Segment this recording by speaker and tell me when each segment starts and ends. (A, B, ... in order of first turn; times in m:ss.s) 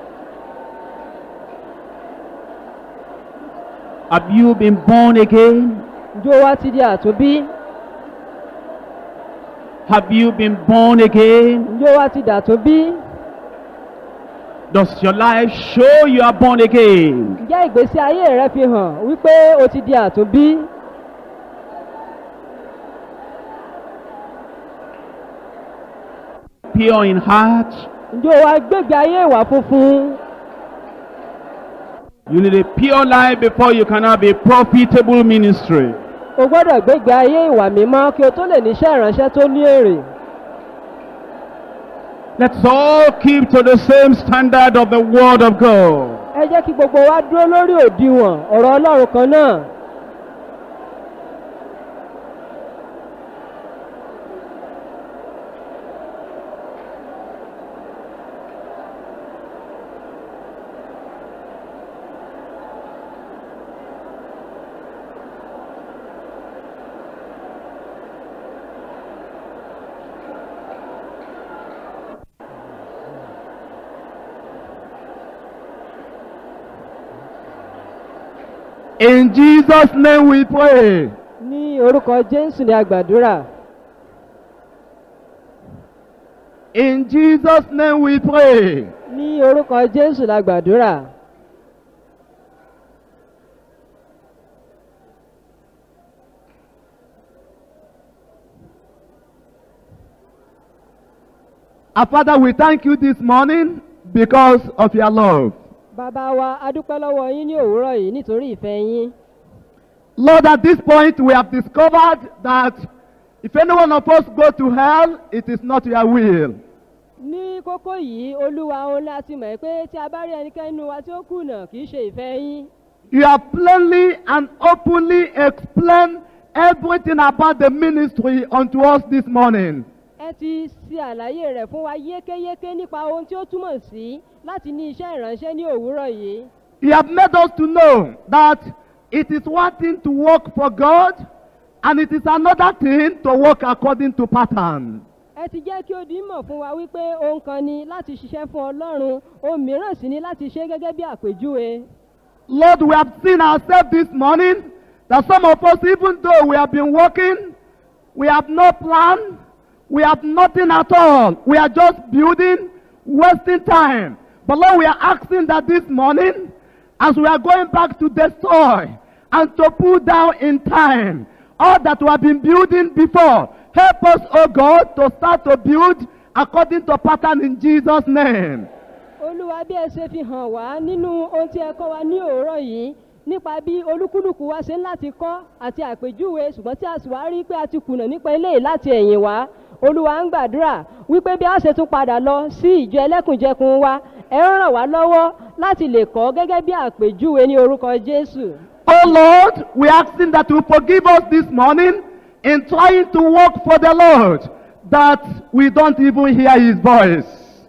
0:04.1-0:05.9 A
0:06.2-0:07.5 B
0:09.9-0:11.7 A
0:11.7-0:13.0 B
0:14.7-0:17.4 A
0:17.4-0:20.7 B
0:26.7-0:27.9 A
0:28.1-0:30.2 B
0:32.3-0:36.0 A
0:36.4-0:40.1 B
0:42.4-0:46.2 A
0:46.3-0:49.7 B
1:19.0-1:21.1 C
1:21.4-1:23.5 B
1:26.7-1:28.9 C
1:29.1-1:31.1 B
1:42.0-1:45.6 C
1:46.0-1:49.1 B
1:50.2-1:52.8 C
1:53.4-1:56.6 C
1:57.2-2:02.7 B
2:03.1-2:09.8 C
2:10.2-2:16.5 B
2:16.8-2:21.2 C
2:21.8-2:25.0 C
2:25.4-2:31.8 B
2:32.5-2:37.5 C
2:38.2-2:39.3 C
2:39.9-2:58.7 C
2:59.2-3:18.6 B
3:18.9-3:27.5 C